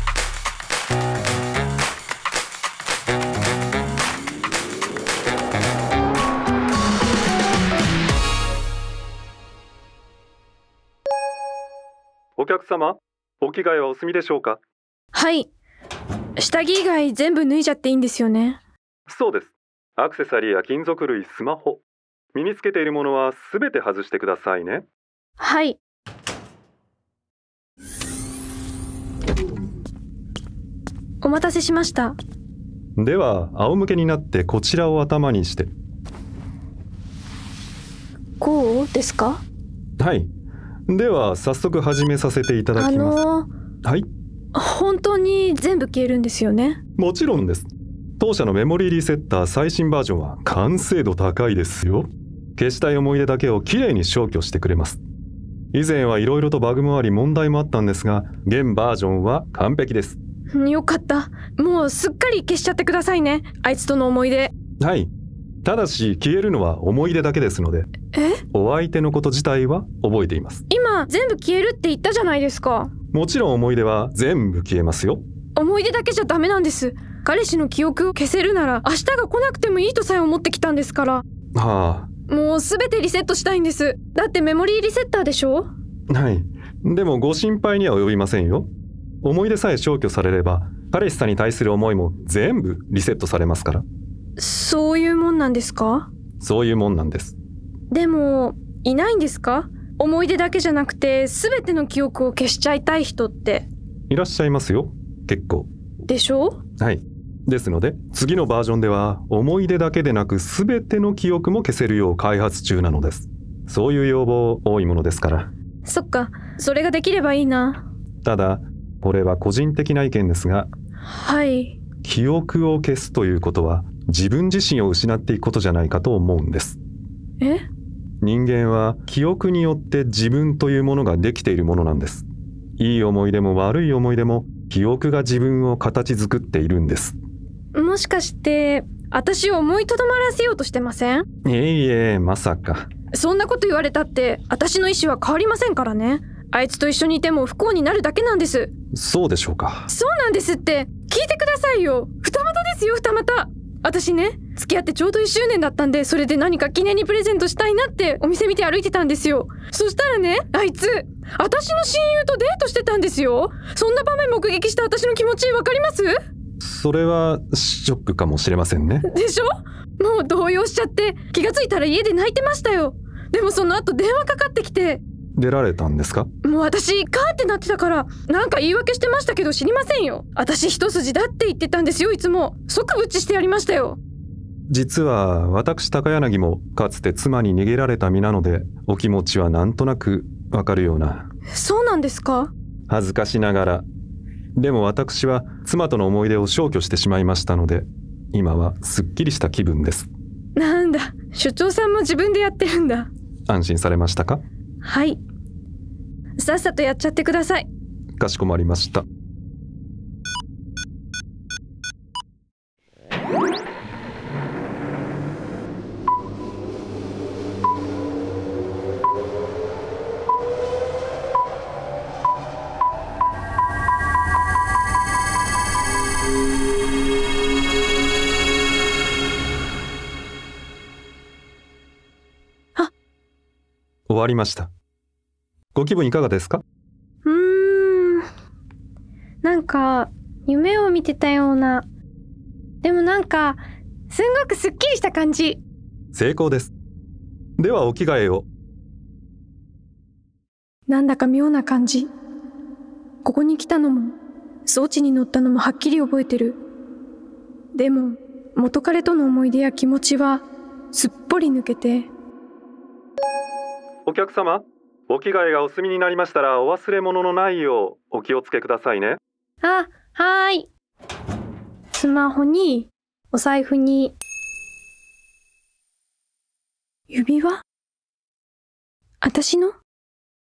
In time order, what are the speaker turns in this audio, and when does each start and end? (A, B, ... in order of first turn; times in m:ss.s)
0:12.4-0:14.6 A
0:15.1-0:15.5 B
0:16.4-0:18.6 B
0:19.1-0:21.8 A
0:22.4-0:24.9 A
0:25.4-0:25.8 B
0:31.2-0:32.2 B
0:33.0-0:35.7 A
0:38.4-0:39.4 B
0:40.0-0:40.3 A
0:40.9-0:43.2 A
0:42.8-0:43.5 B
0:44.5-0:46.8 B
0:47.0-0:55.0 A
0:55.7-1:00.2 A
1:00.5-1:04.5 B
1:04.8-1:05.1 A
1:05.6-1:07.9 A
1:08.1-1:08.4 B
1:08.5-1:10.6 A
1:10.7-1:12.9 B
1:13.1-1:15.2 A
1:15.6-1:21.2 B
1:21.6-1:22.1 A
1:22.3-1:25.7 B
1:26.1-1:28.7 A
1:29.2-1:33.8 A
1:34.4-1:36.1 B
1:36.4-1:37.4 A
1:37.9-1:43.7 B
1:44.1-1:45.7 A
1:46.1-1:46.6 B
1:46.8-1:55.5 A
1:55.8-1:57.8 B
1:58.2-2:00.7 A
2:01.1-2:01.8 B
2:02.0-2:06.8 A
2:07.4-2:07.7 B
2:08.2-2:12.3 A
2:12.8-2:17.2 A
2:17.7-2:21.3 B
2:21.4-2:22.9 A
2:23.1-2:28.7 B
2:28.9-2:29.9 A
2:29.9-2:46.1 B
2:46.6-2:49.1 A
2:49.0-2:55.0 B
2:55.4-2:56.3 A
2:56.4-3:04.0 B
3:04.7-3:11.3 A
3:11.5-3:12.5 B
3:12.9-3:13.9 A
3:14.6-3:20.1 A
3:20.6-3:23.1 B
3:23.5-3:24.4 A
3:24.8-3:25.2 B
3:26.4-3:27.7 B
3:28.2-3:29.0 A
3:54.1-3:54.7 A
3:55.8-3:56.6 A
3:57.2-3:58.2 B
3:59.4-4:01.9 B
4:02.8-4:05.6 B
4:06.1-4:06.7 A
4:07.6-4:08.5 A
4:10.9-4:12.1 B
4:13.2-4:16.6 B
4:17.7-4:22.1 B
4:24.1-4:29.2 A
4:29.6-4:30.7 B
4:31.9-4:34.2 B
4:37.1-4:37.6 B
4:39.2-4:39.8 B